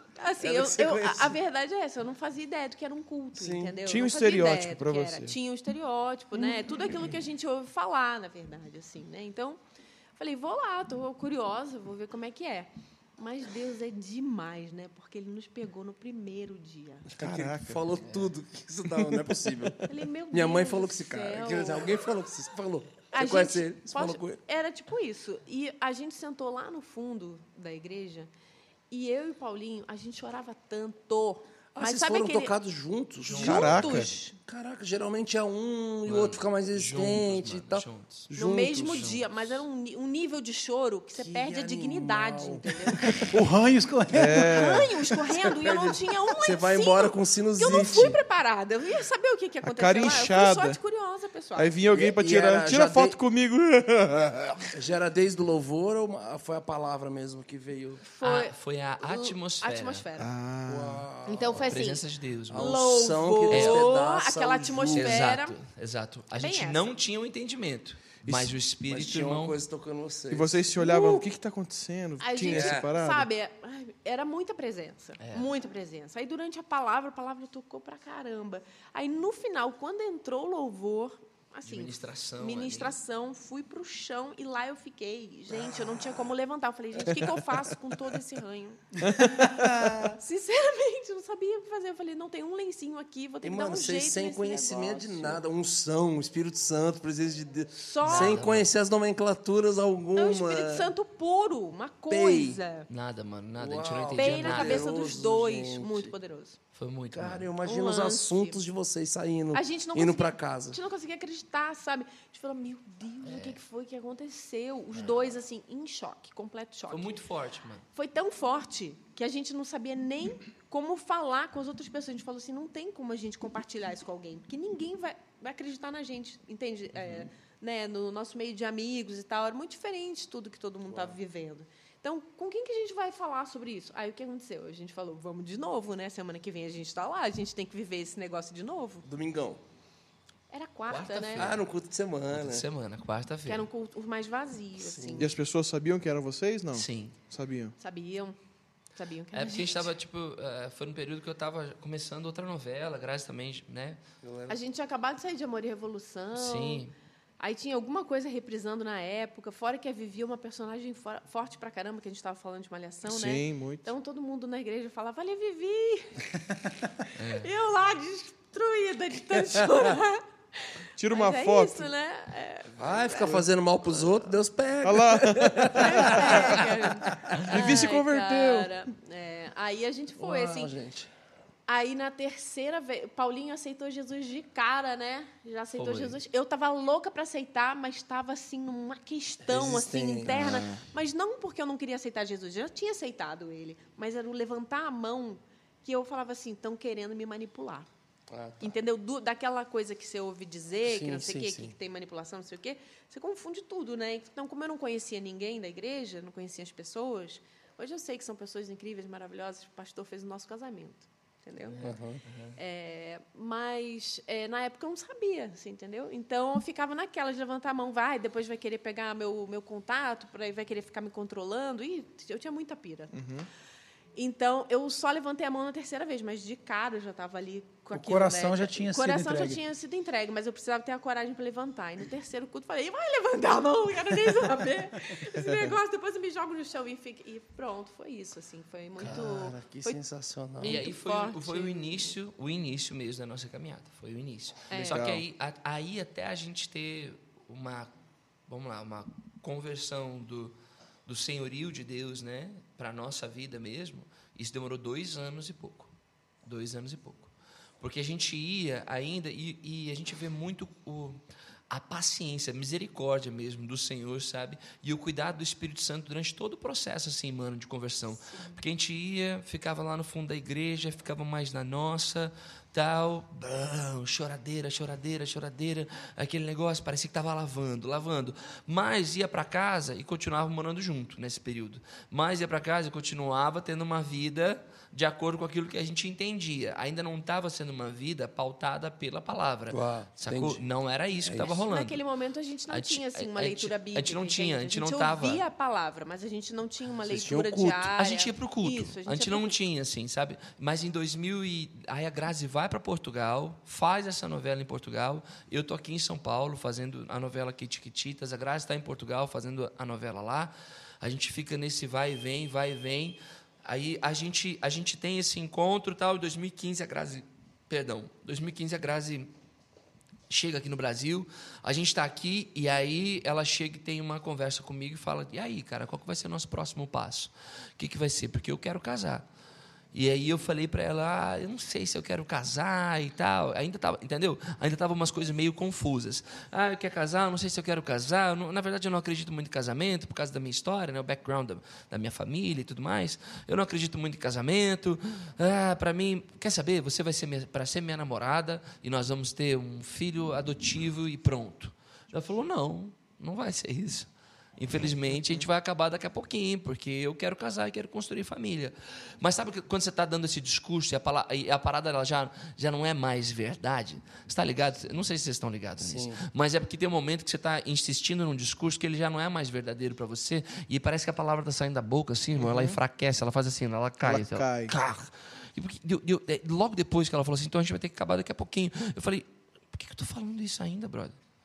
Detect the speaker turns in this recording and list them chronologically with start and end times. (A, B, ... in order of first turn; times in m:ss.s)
0:00.2-0:09.6 A
0:00.4-0:01.4 B
0:03.4-0:03.8 B
0:03.8-0:05.4 C
0:10.2-0:17.1 A
0:17.1-0:24.4 B
0:17.2-0:17.9 C
0:19.9-0:22.0 A
0:23.1-0:28.3 A
0:28.9-0:32.5 A
0:31.7-0:39.2 B
0:33.3-0:33.8 D
0:33.3-0:34.4 A
0:33.4-0:34.1 C
0:36.1-0:38.3 D
0:38.3-0:43.4 A
0:38.8-0:39.6 D
0:41.2-0:43.3 B
0:43.3-0:44.8 E
0:44.1-0:45.0 C
0:44.4-0:51.8 A
0:45.3-0:48.2 B
0:49.6-0:50.8 C
0:51.6-0:54.7 C
0:51.9-0:53.2 B
0:54.7-0:58.0 B
0:58.0-1:00.3 A
0:58.2-1:00.1 D
1:00.2-1:01.1 C
1:00.7-1:01.8 B
1:01.2-1:05.6 A
1:01.6-1:02.7 D
1:02.5-1:05.3 B
1:03.5-1:03.9 D
1:04.9-1:09.6 D
1:06.4-1:06.9 A
1:08.3-1:08.5 C
1:08.9-1:10.7 B
1:10.3-1:13.3 C
1:10.8-1:11.3 A
1:12.2-1:29.0 A
1:12.4-1:12.9 B
1:15.2-1:15.5 D
1:21.7-1:23.0 D
1:29.0-1:30.2 C
1:30.0-1:35.4 A
1:33.4-1:40.9 B
1:37.7-1:38.4 A
1:38.0-1:38.7 D
1:40.2-1:42.9 A
1:42.1-1:42.6 B
1:42.9-1:44.9 D
1:43.6-1:46.1 B
1:44.1-1:46.6 A
1:46.7-1:47.5 D
1:47.1-1:50.8 B
1:47.6-1:48.6 A
1:49.5-1:57.1 A
1:53.2-1:53.6 D
1:56.9-1:57.8 D
1:58.0-2:19.1 A
2:10.9-2:11.2 B
2:19.0-2:19.6 B
2:20.5-2:21.5 A
2:20.9-2:21.6 D
2:21.4-2:22.7 B
2:22.3-2:23.7 D
2:23.5-2:25.4 A
2:24.8-2:25.3 B
2:25.2-2:27.8 C
2:26.7-2:27.2 D
2:27.8-2:28.4 A
2:29.0-2:29.9 A
2:29.3-2:34.0 D
2:34.2-2:34.6 B
2:34.5-2:36.9 A
2:36.4-2:36.9 D
2:37.4-2:53.5 A
2:43.0-2:43.9 C
2:47.2-2:47.5 D
2:51.0-2:51.9 C
2:52.8-2:57.4 B
2:54.8-2:56.6 C
2:55.7-3:00.8 A
2:57.4-2:58.7 C
3:00.2-3:01.1 B
3:01.7-3:17.9 A
3:05.8-3:06.2 D
3:09.4-3:10.7 B
3:10.3-3:10.8 C
3:18.3-3:18.8 B
3:18.6-3:32.0 A
3:20.8-3:21.7 B
3:31.6-3:32.6 D
3:31.8-3:32.2 B
3:32.6-3:43.1 A
3:43.1-3:43.5 C
3:44.2-4:00.0 A
3:47.9-3:49.6 E
3:55.4-3:55.8 C
3:59.0-4:00.8 B
4:00.6-4:02.1 A
4:00.6-4:07.9 D
4:04.7-4:05.0 A
4:04.9-4:05.2 C
4:08.5-4:10.6 D
4:11.1-4:15.9 D
4:16.4-4:52.0 D
4:28.3-4:28.6 A
4:49.7-4:50.6 B
4:51.2-4:51.6 B
4:51.5-4:59.6 A
4:52.7-4:55.4 D
4:57.1-4:57.9 B
4:58.0-5:19.3 D
5:20.3-5:29.2 D
5:29.9-6:21.2 D
6:05.8-6:06.2 B
6:12.4-6:12.8 C
6:14.0-6:14.7 C